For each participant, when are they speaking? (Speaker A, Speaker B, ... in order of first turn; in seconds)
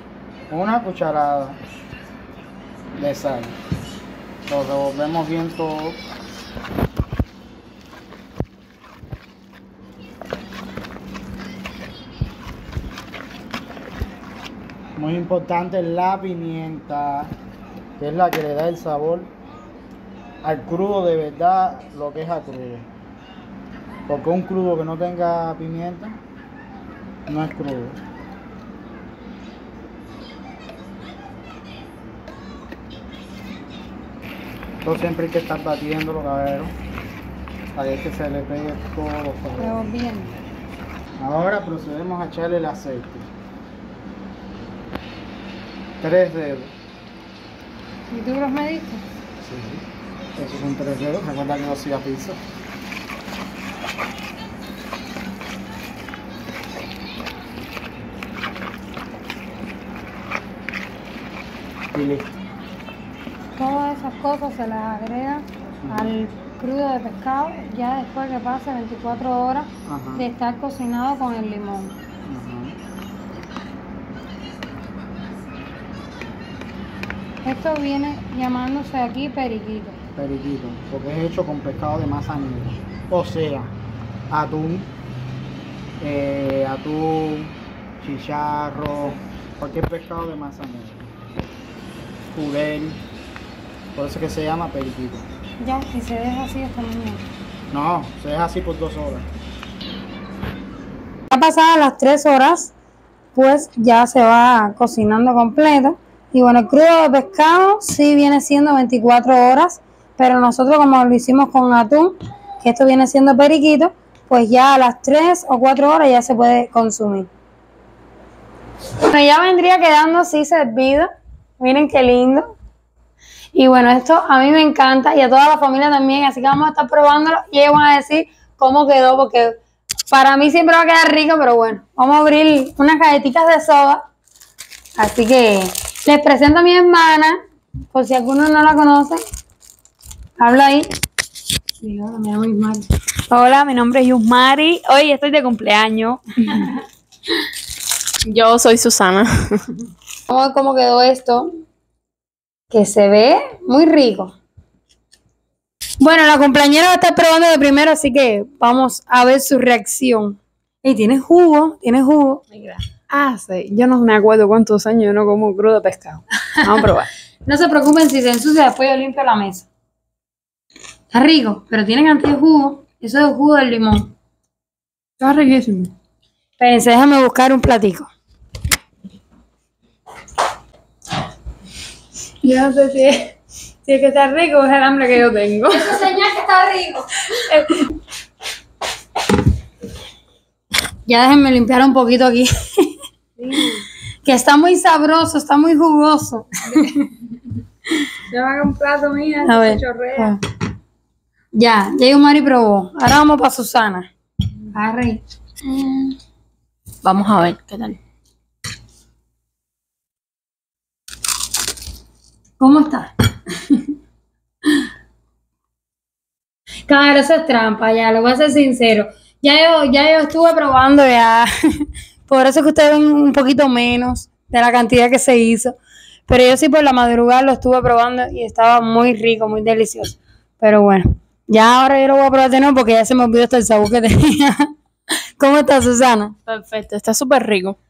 Speaker A: 0.5-1.6, 3.0-3.6, 4.5-6.0, 15.0-17.3, 18.0-19.3, 20.4-22.9, 24.1-26.2, 27.3-28.0, 34.8-36.8, 37.8-39.9, 41.2-43.3, 46.0-46.8, 49.4-49.8, 50.4-52.4, 61.9-62.4, 65.8-66.1, 69.9-70.3, 72.3-72.8, 80.2-83.8, 84.3-84.9, 86.0-91.2, 92.3-93.0, 94.0-95.3, 97.7-99.3
Speaker B: 39.6-40.4, 48.1-49.0, 63.6-72.0, 77.4-80.0, 95.6-97.2, 101.3-102.7, 103.3-117.3, 119.0-122.5, 123.5-129.6, 130.1-134.0, 135.0-137.4, 137.9-139.2, 140.4-140.9, 141.8-142.9, 150.3-151.5, 152.7-154.3, 156.0-162.8, 166.6-166.9, 167.4-169.7, 171.1-174.1, 176.6-178.1, 182.4-183.3, 183.9-187.9, 191.1-197.1, 199.4-200.4, 201.6-204.1, 204.7-206.0, 212.6-213.1, 216.9-225.8, 226.3-234.7, 235.4-236.3
Speaker C: 143.3-146.6, 163.0-167.1, 175.2-175.9, 185.0-185.6
Speaker D: 148.2-149.6, 207.0-208.0, 236.5-237.8